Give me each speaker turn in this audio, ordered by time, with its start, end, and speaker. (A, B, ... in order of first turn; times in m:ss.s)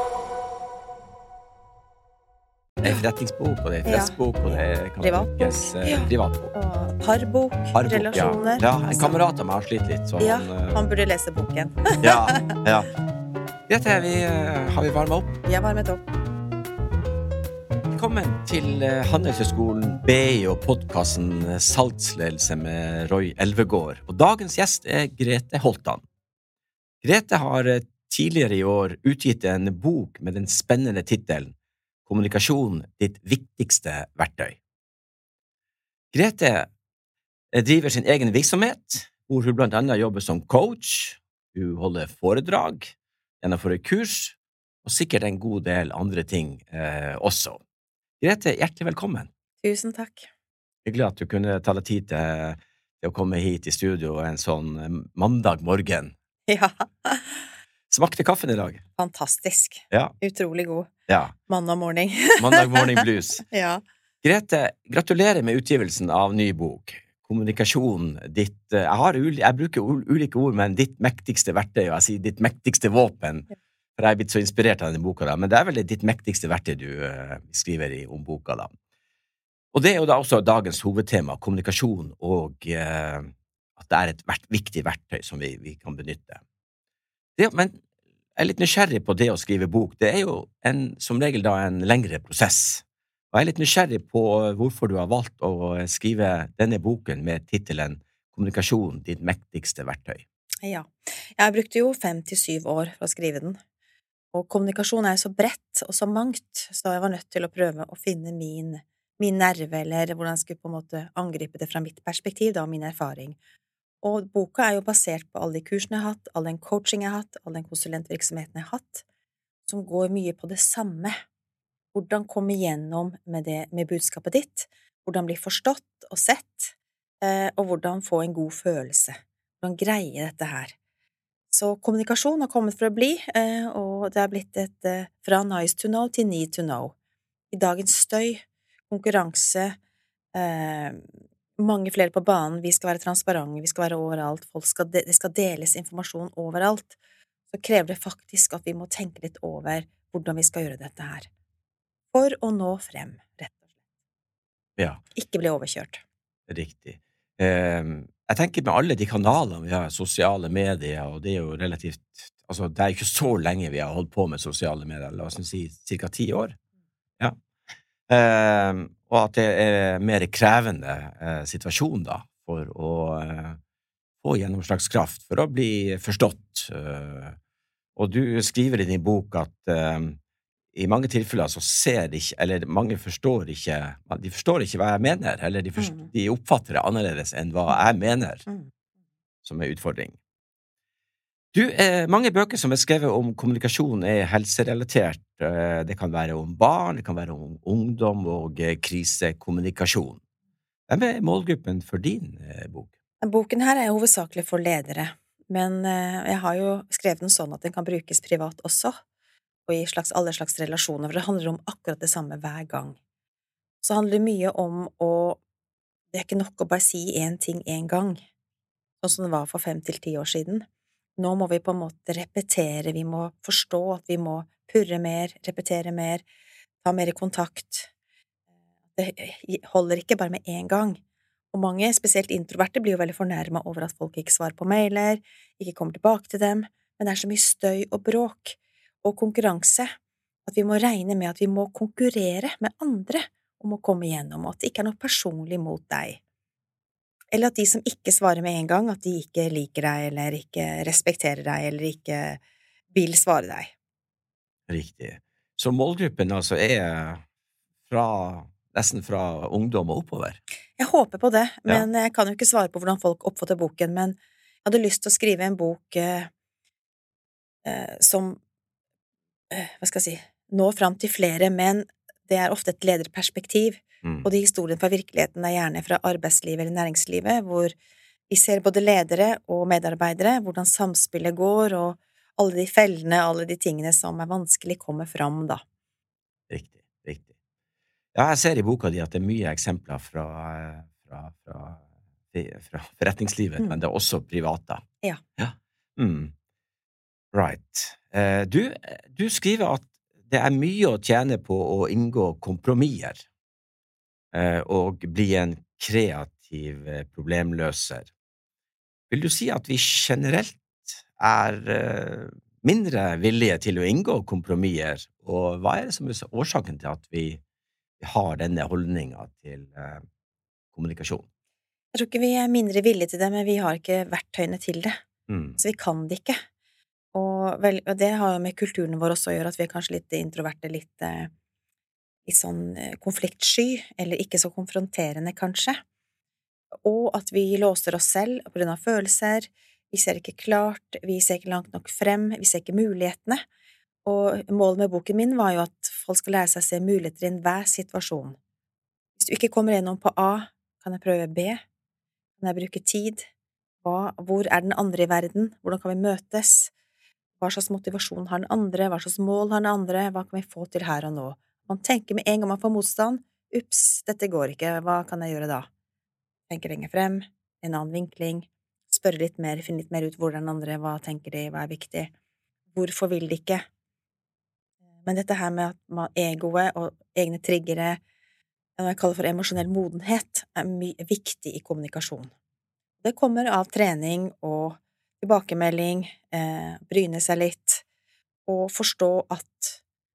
0:02.8-0:06.5 A
0:03.8-0:09.2 B
0:07.7-0:10.8 A
0:10.2-0:12.6 B
0:12.0-0:12.9 A
0:13.7-0:15.4 A
0:15.5-0:16.0 B
0:17.9-0:26.0 A
0:27.0-0:31.6 A
0:32.1-0:34.6 A
0:36.1-0:36.7 A
0:37.5-0:47.6 A
0:48.2-0:49.3 A
0:49.6-0:50.3 B
0:50.8-0:56.2 A
0:56.5-0:57.5 B
0:57.9-0:58.8 A
0:59.0-1:00.9 B
1:01.1-1:01.3 A
1:01.5-1:03.8 B
1:02.4-1:03.4 A
1:04.2-1:18.7 A
1:19.7-1:26.4 A
1:27.4-1:27.8 A
1:28.4-1:40.2 A
1:40.6-1:43.6 B
1:44.3-1:53.4 B
1:54.0-1:59.0 B
1:59.7-2:01.2 B
2:01.9-2:10.8 B
2:11.5-2:16.9 B
2:17.5-2:19.8 B
2:20.4-2:21.0 B
2:21.6-2:27.0 B
2:27.5-2:31.3 B
2:32.1-2:33.6 B
2:35.2-2:36.0 B
2:36.5-2:46.6 A
2:48.1-2:53.6 A
2:54.2-2:57.4 A
2:58.0-3:00.2 A
3:00.7-3:08.5 A
3:05.8-3:06.1 B
3:09.4-3:10.2 A
3:11.5-3:20.2 A
3:20.9-3:22.9 A
3:23.2-3:29.0 B
3:29.7-3:33.0 B
3:33.8-3:35.4 B
3:36.1-3:38.2 B
3:39.0-3:40.7 B
3:41.2-3:46.2 B
3:46.8-3:47.9 B
3:49.0-3:51.0 B
3:51.5-3:59.9 B
4:00.5-4:06.2 B
4:07.3-4:12.4 B
4:12.9-4:13.7 B
4:14.7-4:17.2 A
4:17.9-4:20.4 A
4:20.8-4:26.3 B
4:27.6-4:28.4 B
4:29.5-4:37.8 B
4:38.3-4:45.6 B
4:46.5-4:47.3 A
4:48.2-4:54.8 A
4:55.4-4:56.3 A
4:57.3-5:03.3 A
5:04.3-5:08.1 A
5:09.1-5:17.4 A
5:18.0-5:20.0 A
5:20.7-5:21.3 A
5:21.9-5:25.0 B
5:25.3-5:25.6 A
5:25.6-5:26.4 B
5:27.1-5:31.3 B
5:32.3-5:35.8 B
5:36.8-5:43.4 B
5:44.0-5:48.4 B
5:49.2-5:51.6 B
5:52.4-5:53.3 B
5:53.8-5:56.7 B
5:57.4-6:05.7 B
6:06.5-6:12.1 B
6:12.7-6:13.7 B
6:15.0-6:18.0 B
6:18.8-6:22.3 B
6:23.0-6:27.8 B
6:28.5-6:29.8 B